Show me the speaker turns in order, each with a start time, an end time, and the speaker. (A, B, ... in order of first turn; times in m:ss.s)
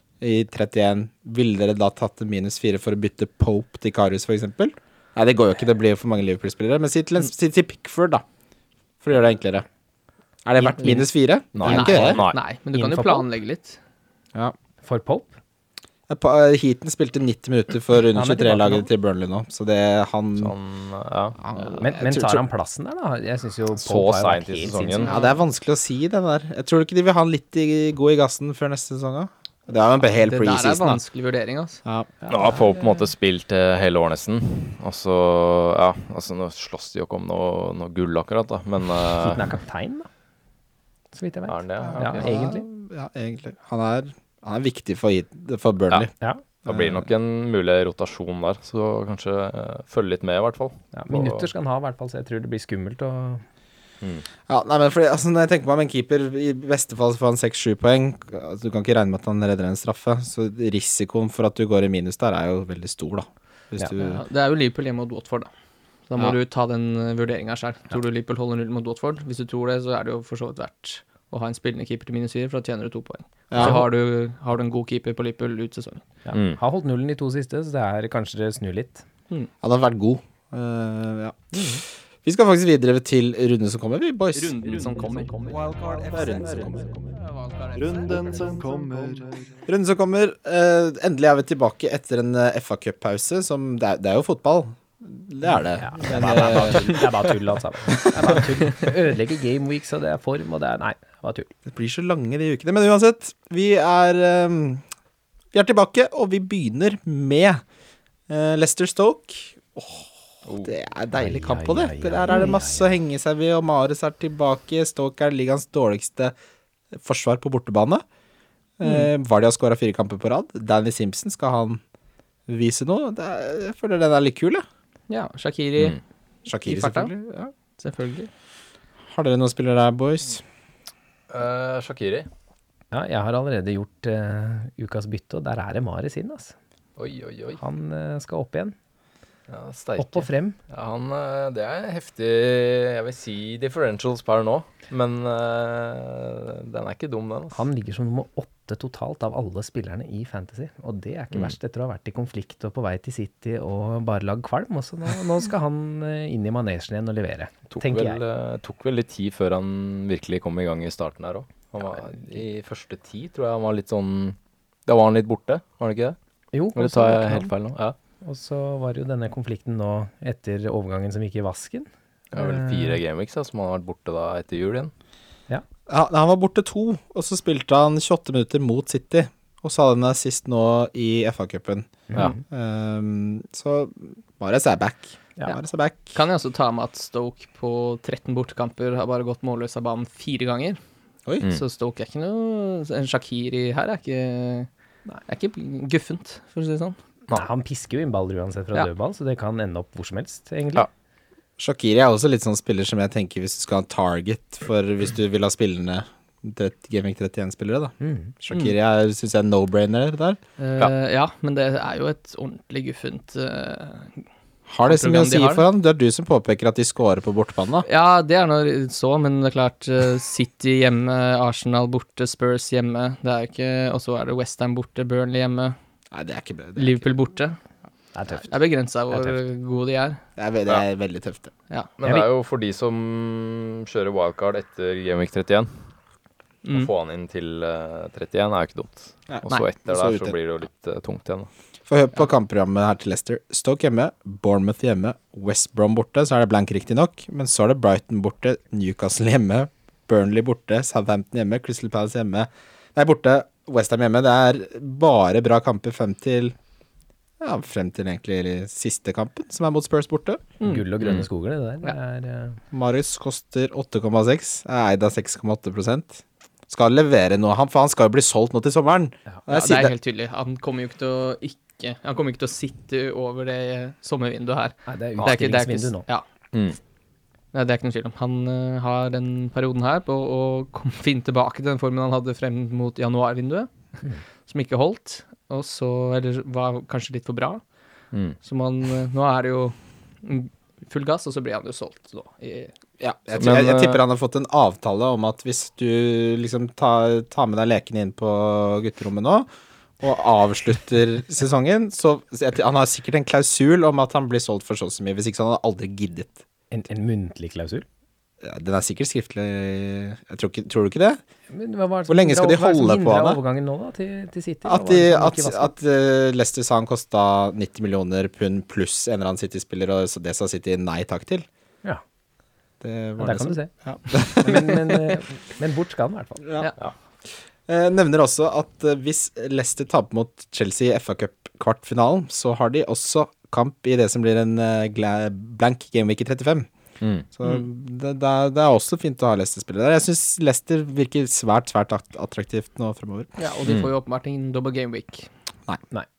0:00.2-0:08.2 A
0:09.0-0:09.7 A
0:10.4-0:12.2 A
0:10.6-0:11.1 B
0:11.5-0:12.4 C
0:11.6-0:13.8 D
0:11.6-0:13.3 B
0:14.8-0:15.3 B
0:16.1-0:20.6 A
0:18.2-0:18.9 B
0:20.4-0:21.4 C
0:21.4-0:22.4 A
0:21.8-0:25.1 B
0:23.8-0:25.1 C
0:25.0-0:31.0 A
0:25.1-0:25.4 D
0:30.2-0:31.8 D
0:32.2-0:32.7 B
0:32.3-0:39.5 C
0:39.2-0:40.1 B
0:41.1-0:42.6 B
0:41.5-0:42.1 C
0:41.8-0:46.1 A
0:42.0-0:42.3 D
0:46.6-0:51.5 C
0:46.6-0:47.0 A
0:50.9-0:53.4 B
0:54.5-1:04.2 A
1:04.0-1:05.5 D
1:06.1-1:16.0 D
1:13.5-1:13.8 A
1:13.6-1:13.8 B
1:16.2-1:19.0 B
1:16.3-1:16.6 C
1:19.6-1:21.5 A
1:21.5-1:21.8 B
1:22.2-1:24.6 A
1:24.4-1:25.9 D
1:26.0-1:26.9 A
1:27.7-1:29.1 D
1:29.6-1:37.1 A
1:35.8-1:41.5 B
1:37.9-1:38.4 A
1:41.7-1:44.8 A
1:45.5-1:47.6 A
1:48.3-1:50.1 A
1:50.5-1:50.7 C
1:50.6-1:56.3 A
1:51.2-1:52.9 B
1:56.9-1:58.0 A
1:58.8-2:01.8 A
2:02.5-2:04.6 A
2:05.1-2:06.0 D
2:06.5-2:07.5 A
2:06.6-2:07.1 D
2:07.8-2:08.3 D
2:09.1-2:10.4 A
2:11.3-2:12.3 C
2:12.9-2:16.6 B
2:17.0-2:17.6 C
2:17.6-2:18.8 B
2:19.5-2:27.6 C
2:20.0-2:20.6 B
2:27.5-2:38.2 B
2:37.7-2:46.2 C
2:46.5-2:47.5 B
2:46.8-2:48.0 C
2:48.2-2:53.0 B
2:52.3-2:54.9 C
2:55.9-3:06.2 A
3:02.1-3:02.4 B
3:06.1-3:10.8 D
3:11.5-3:14.7 D
3:15.3-3:17.0 D
3:17.3-3:20.9 B
3:21.6-3:30.4 A
3:28.0-3:28.3 B
3:30.6-3:34.2 D
3:34.7-3:37.9 A
3:34.9-3:35.6 D
3:37.8-3:45.8 D
3:46.1-3:47.1 A
3:46.8-3:47.6 D
3:48.1-3:49.4 B
3:48.4-3:50.2 D
3:50.4-3:51.5 A
3:52.0-3:55.9 C
3:56.6-3:56.9 D
3:56.7-4:01.5 C
3:59.3-4:00.4 A
4:01.9-4:16.6 A
4:17.4-4:20.4 A
4:20.6-4:22.6 B
4:21.0-4:21.3 C
4:22.7-4:29.9 A
4:29.5-4:36.2 D
4:34.9-4:36.1 B
4:36.5-4:36.8 C
4:37.5-4:43.7 D
4:44.5-4:47.6 D
4:48.1-4:48.4 C
4:48.4-4:52.7 D
4:53.0-4:59.5 A
4:53.4-4:54.0 C
5:00.0-5:06.4 A
5:06.7-5:07.9 B
5:08.4-5:11.2 A
5:11.5-5:15.7 B
5:12.1-5:13.4 A
5:14.6-5:21.5 A
5:22.8-5:24.6 A
5:23.2-5:26.5 B
5:26.4-5:26.7 A
5:27.7-5:36.7 A
5:37.0-5:37.3 C
5:37.3-5:43.3 A
5:43.4-5:45.3 D
5:43.6-5:43.9 C